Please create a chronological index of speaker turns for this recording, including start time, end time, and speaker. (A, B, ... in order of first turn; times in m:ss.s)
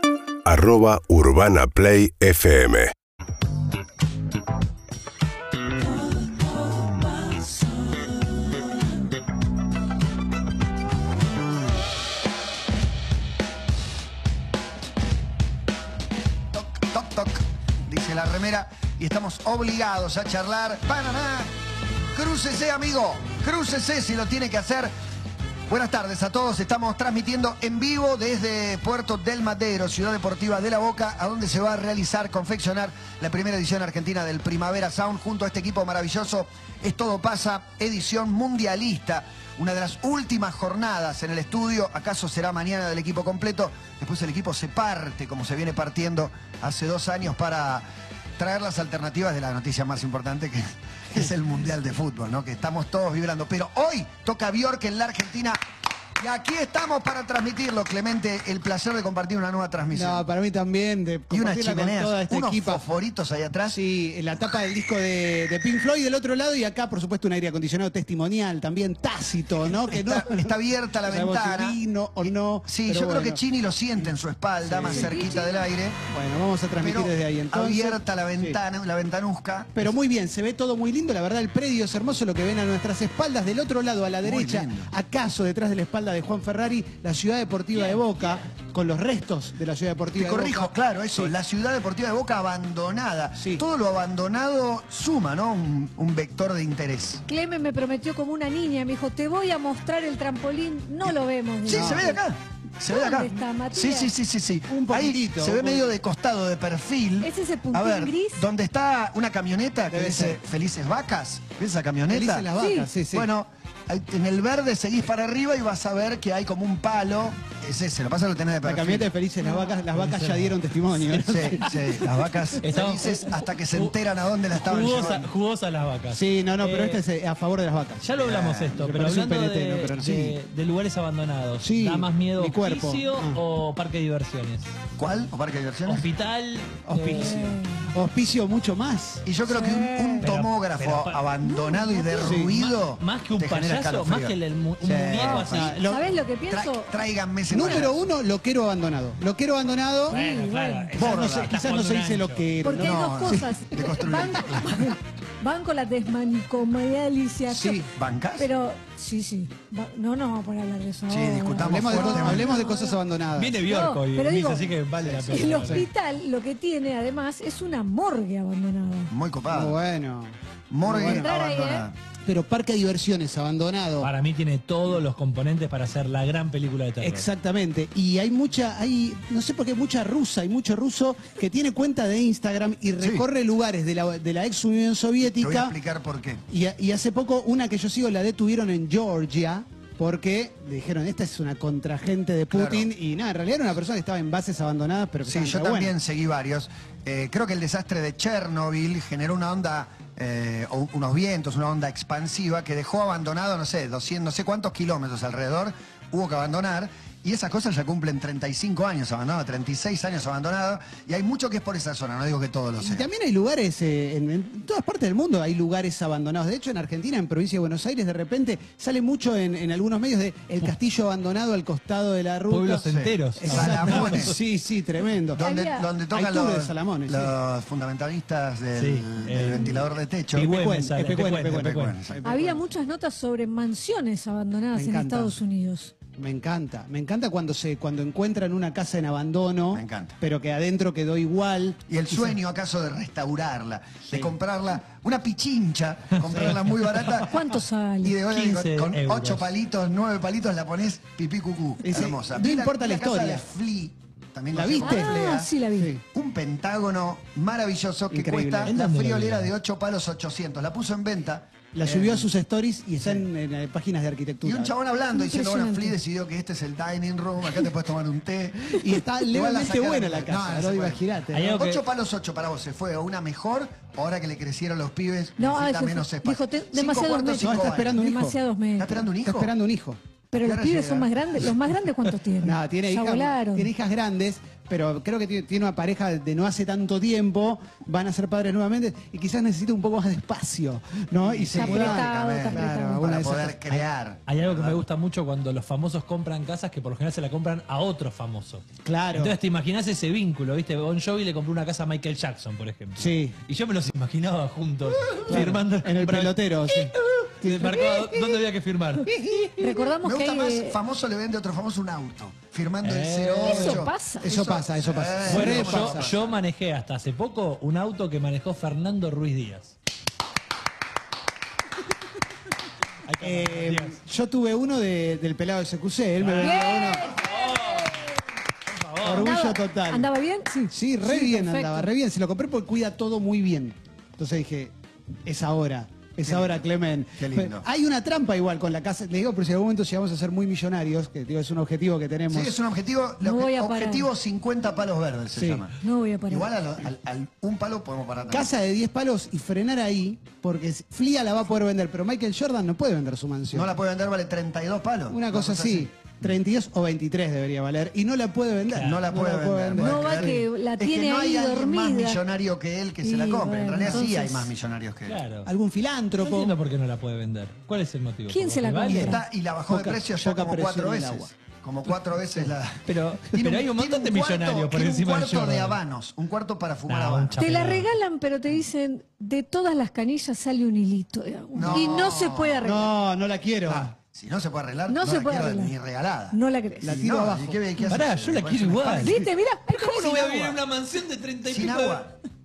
0:00.5-0:02.9 A
0:16.5-0:21.5 B
0:22.1-0:24.9 B
0:25.7-0:47.8 B
0:48.4-0:55.6 B
0:56.2-1:00.2 B
0:59.9-1:02.8 C
1:01.3-1:03.8 B
1:03.7-1:13.4 C
1:09.7-1:16.0 B
1:14.6-1:15.2 C
1:14.9-1:15.6 D
1:16.1-1:18.6 C
1:16.8-1:20.0 B
1:19.8-1:31.3 C
1:24.2-1:24.9 B
1:30.2-1:37.2 B
1:33.4-1:33.6 C
1:37.3-1:42.2 D
1:41.6-1:52.5 B
1:41.7-1:42.1 C
1:42.9-1:44.1 D
1:44.6-1:45.9 C
1:47.2-1:48.5 D
1:49.9-1:50.4 C
1:52.1-1:53.3 C
1:52.6-1:52.9 D
1:53.1-1:59.1 B
1:58.6-2:02.1 C
1:59.9-2:01.9 E
2:01.2-2:05.3 B
2:02.6-2:03.9 E
2:04.5-2:07.0 E
2:06.1-2:08.1 C
2:08.0-2:14.7 E
2:08.2-2:08.8 B
2:08.8-2:10.4 C
2:11.6-2:13.4 C
2:15.0-2:16.1 B
2:15.9-2:17.5 E
2:16.8-2:20.2 C
2:17.4-2:17.8 D
2:19.2-2:25.8 B
2:19.5-2:19.9 D
2:20.2-2:21.3 E
2:21.4-2:22.4 D
2:22.2-2:22.5 C
2:22.4-2:25.8 E
2:25.1-2:26.0 C
2:25.9-2:26.9 D
2:26.5-2:28.0 B
2:27.5-2:30.2 C
2:27.6-2:27.9 D
2:30.1-2:31.0 D
2:30.1-2:32.5 E
2:31.0-2:31.6 B
2:31.0-2:33.5 C
2:32.6-2:37.8 D
2:32.7-2:35.0 B
2:37.5-2:37.9 C
2:37.8-2:38.5 B
2:38.4-2:43.0 D
2:41.1-2:42.6 B
2:41.6-2:43.6 C
2:43.4-2:45.8 E
2:43.6-2:44.7 D
2:45.0-2:45.9 C
2:45.3-2:49.1 D
2:49.1-2:49.8 B
2:49.5-2:51.3 C
2:50.7-2:52.0 B
2:51.0-2:51.9 D
2:52.3-2:54.1 C
2:54.0-2:57.3 E
2:57.0-3:05.8 C
3:03.0-3:03.3 B
3:05.3-3:06.4 B
3:06.5-3:15.9 C
3:12.5-3:12.9 B
3:15.2-3:33.1 B
3:32.8-3:42.8 C
3:42.5-3:44.4 E
3:42.8-3:44.4 B
3:43.4-3:45.4 C
3:45.3-3:50.6 B
3:45.4-3:45.9 D
3:46.1-3:47.3 C
3:48.8-3:49.8 E
3:50.3-3:52.0 E
3:50.4-3:52.7 C
3:51.6-3:52.2 B
3:52.2-3:55.9 D
3:54.7-3:55.4 C
3:56.2-4:02.4 C
3:59.7-4:00.2 B
4:01.9-4:15.5 B
4:06.2-4:07.3 E
4:07.2-4:08.2 D
4:08.3-4:09.5 E
4:11.8-4:13.4 C
4:14.5-4:15.2 C
4:14.8-4:15.9 D
4:15.7-4:16.0 C
4:16.1-4:22.3 B
4:18.1-4:18.7 C
4:18.7-4:19.5 E
4:21.7-4:24.7 C
4:24.4-4:38.0 B
4:25.1-4:26.0 D
4:28.8-4:31.6 C
4:31.3-4:31.8 E
4:35.4-4:39.0 D
4:37.4-4:38.4 C
4:38.8-4:39.5 B
4:39.2-4:40.0 C
4:40.3-4:43.7 D
4:40.3-4:41.5 B
4:42.4-4:53.9 C
4:51.2-4:54.8 B
4:51.5-4:53.1 D
4:54.3-5:09.2 E
4:58.8-4:59.3 C
5:03.0-5:03.4 C
5:05.2-5:08.1 C
5:07.7-5:08.0 D
5:09.1-5:09.8 C
5:09.6-5:10.8 D
5:10.0-5:16.4 B
5:12.8-5:13.8 E
5:13.4-5:14.6 D
5:14.2-5:16.1 C
5:15.3-5:19.7 E
5:23.1-5:24.0 E
5:23.2-5:27.2 C
5:26.2-5:29.4 E
5:26.4-5:28.2 D
5:29.0-5:30.1 C
5:29.1-5:31.9 D
5:30.7-5:34.7 C
5:35.2-5:42.6 C
5:36.2-5:37.7 B
5:42.3-5:45.8 B
5:43.2-5:44.1 D
5:45.3-5:45.7 C
5:45.8-5:46.5 D
5:46.3-5:48.5 B
5:48.3-5:53.7 C
5:53.5-5:55.9 B
5:55.1-6:00.4 C
5:58.7-5:59.0 E
5:58.7-6:05.2 B
5:59.8-6:02.2 D
6:03.0-6:04.5 D
6:05.1-6:05.5 E
6:05.5-6:06.5 C
6:06.2-6:09.2 E
6:08.3-6:09.2 D
6:08.9-6:17.5 B
6:09.7-6:11.3 C
6:12.9-6:15.8 E
6:16.9-6:17.9 E
6:17.4-6:23.0 D
6:21.5-6:22.7 B
6:22.6-6:23.9 C
6:23.7-6:29.2 B
6:24.9-6:25.7 D
6:26.3-6:27.0 D
6:26.8-6:27.6 C
6:27.9-6:32.0 E
6:29.0-6:30.5 D
6:31.4-6:32.1 B